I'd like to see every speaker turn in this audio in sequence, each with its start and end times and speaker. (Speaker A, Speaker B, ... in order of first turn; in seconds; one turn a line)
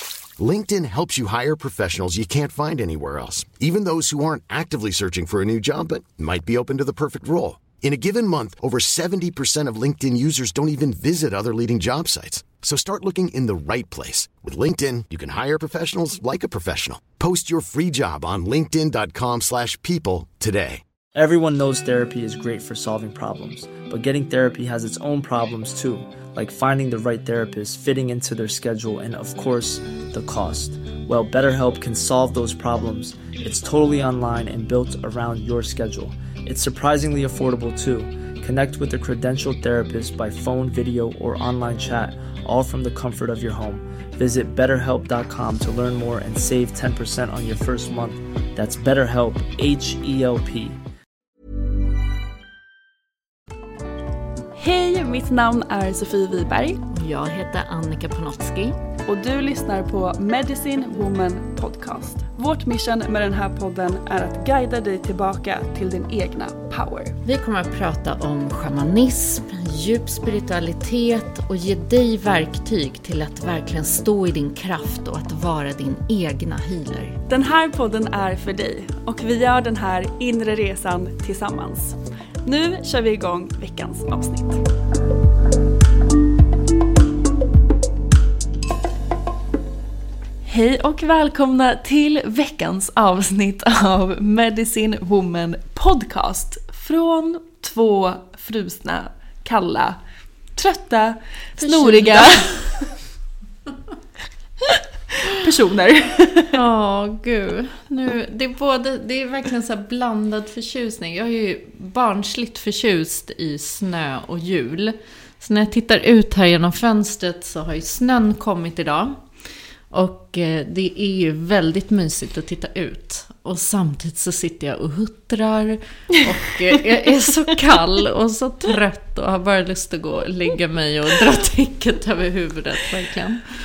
Speaker A: 0.4-20.8
Speaker B: 21.1-50.8
Speaker C: 54.5-56.8
Speaker D: 56.9-58.8
Speaker C: 59.0-67.2
Speaker D: 67.2-77.2
Speaker C: 77.3-84.6
Speaker C: 90.4-100.0
Speaker C: 100.5-102.9
Speaker D: 101.6-102.5
Speaker C: 104.7-106.6
Speaker D: 106.5-119.2
Speaker D: 119.9-133.5